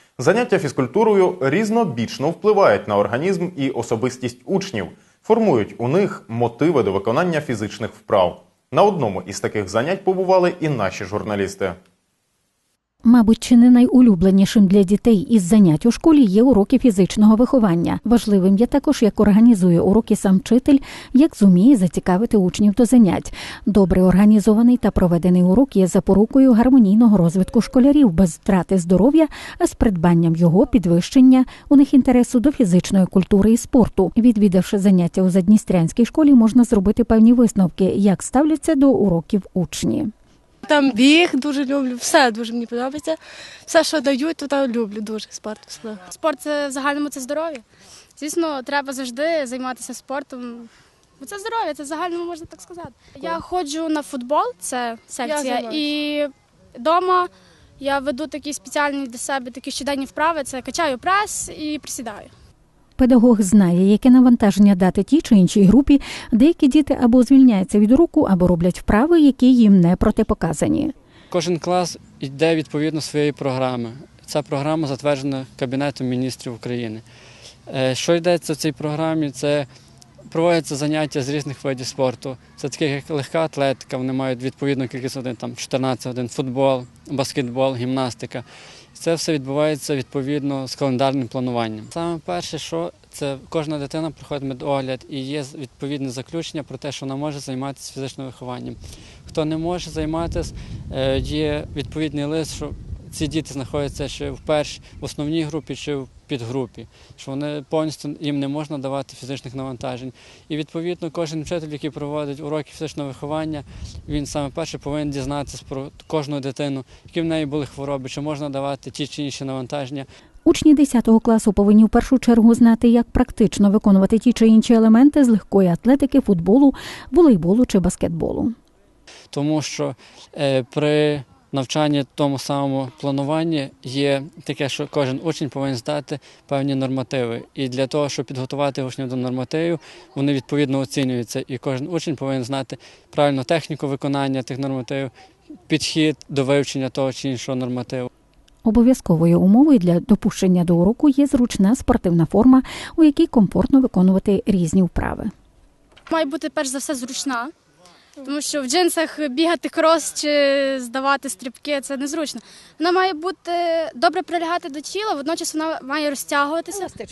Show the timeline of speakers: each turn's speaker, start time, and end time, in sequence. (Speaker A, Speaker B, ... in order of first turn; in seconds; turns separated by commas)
Speaker A: 0.2-11.8, Speaker B: 13.0-40.1, Speaker C: 40.6-46.0, Speaker D: 46.1-47.6, Speaker D: 48.1-62.3, Speaker C: 53.2-53.4, Speaker C: 55.2-55.9, Speaker B: 63.0-70.9, Speaker E: 71.3-77.0, Speaker E: 77.7-79.7, Speaker E: 80.3-120.0, Speaker B: 120.4-128.5, Speaker E: 129.3-145.1, Speaker E: 145.7-148.1, Speaker B: 148.6-155.3, Speaker D: 156.1-157.5, Speaker D: 158.2-166.9